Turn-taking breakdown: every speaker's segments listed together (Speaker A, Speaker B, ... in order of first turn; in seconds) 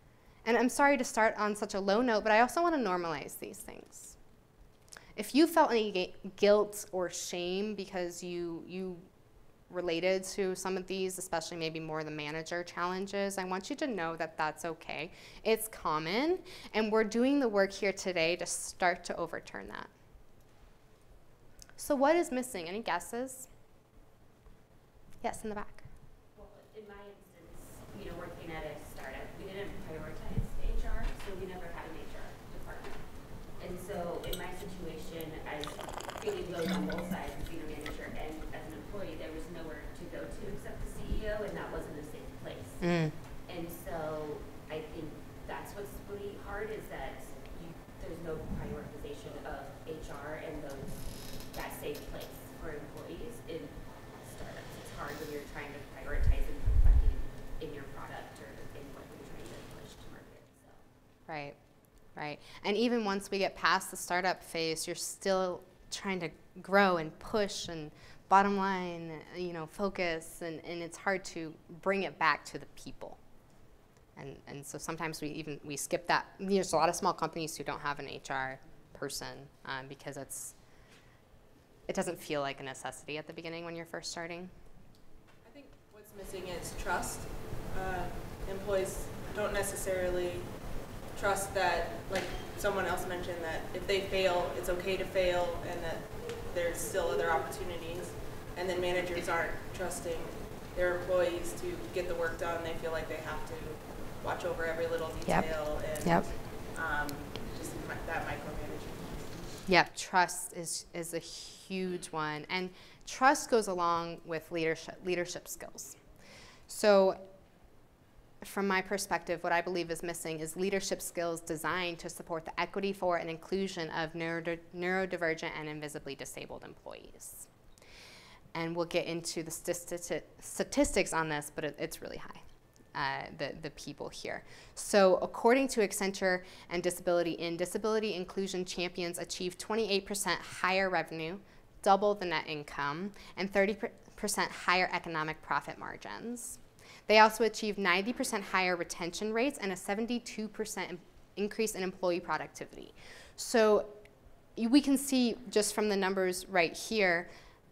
Speaker A: 0.5-4.2, 5.2-9.1, 9.7-19.9, 21.8-23.5, 25.2-25.9, 42.8-43.1, 61.3-61.6, 62.1-73.2, 74.2-80.5, 81.9-84.5, 106.0-106.3, 109.7-116.0, 116.7-117.2, 118.4-127.5, 128.5-132.4, 132.9-154.0, 154.6-157.3
Speaker B: 26.3-42.9, 43.5-60.8
Speaker C: 86.2-90.4, 91.2-109.1